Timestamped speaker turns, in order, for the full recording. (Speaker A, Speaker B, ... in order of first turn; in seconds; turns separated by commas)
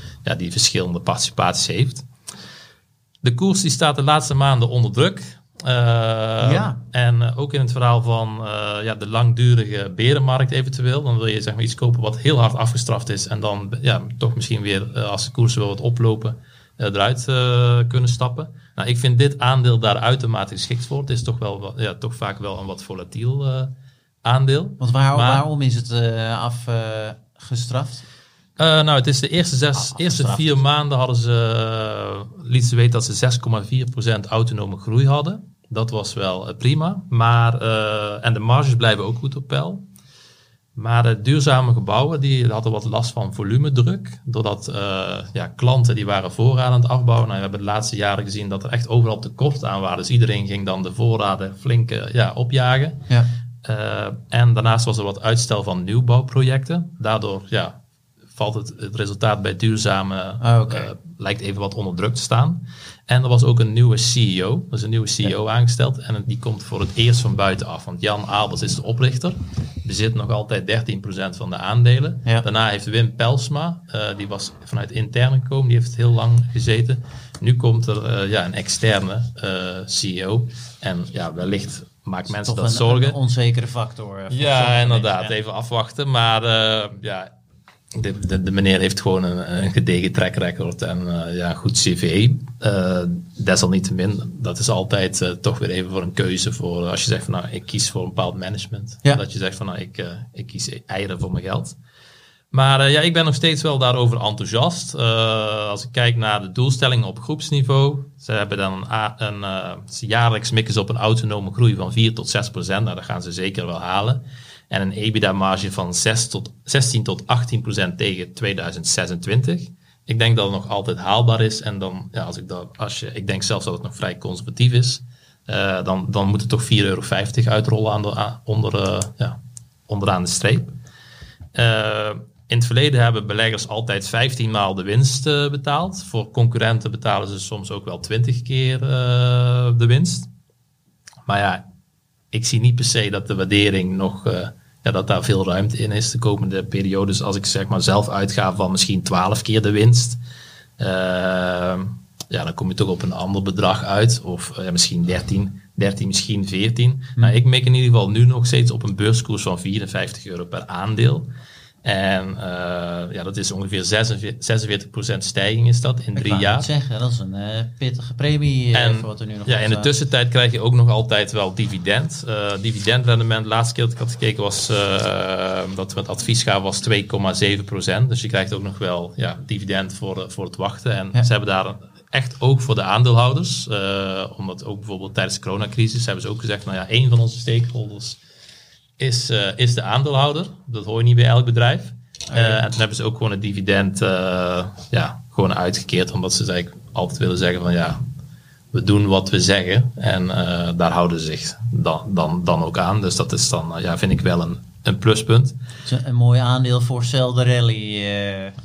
Speaker A: 0.2-2.1, Speaker A: 3.2-23.7, Speaker B: 6.4-6.8, Speaker A: 24.2-25.4, Speaker B: 24.8-28.1, Speaker A: 28.6-39.9, Speaker B: 29.8-30.6, Speaker A: 40.8-53.0, Speaker A: 53.6-57.8, Speaker A: 58.4-83.2, Speaker B: 60.4-60.9, Speaker B: 82.3-85.3, Speaker A: 84.3-87.3, Speaker A: 87.9-101.8, Speaker A: 102.5-130.8, Speaker A: 131.6-140.3, Speaker A: 141.3-141.6, Speaker A: 142.3-150.2, Speaker A: 150.8-161.3, Speaker A: 161.8-166.7, Speaker B: 166.2-169.9, Speaker A: 168.7-188.2, Speaker A: 189.0-198.0, Speaker B: 192.3-192.6, Speaker A: 198.7-205.6, Speaker B: 205.9-208.5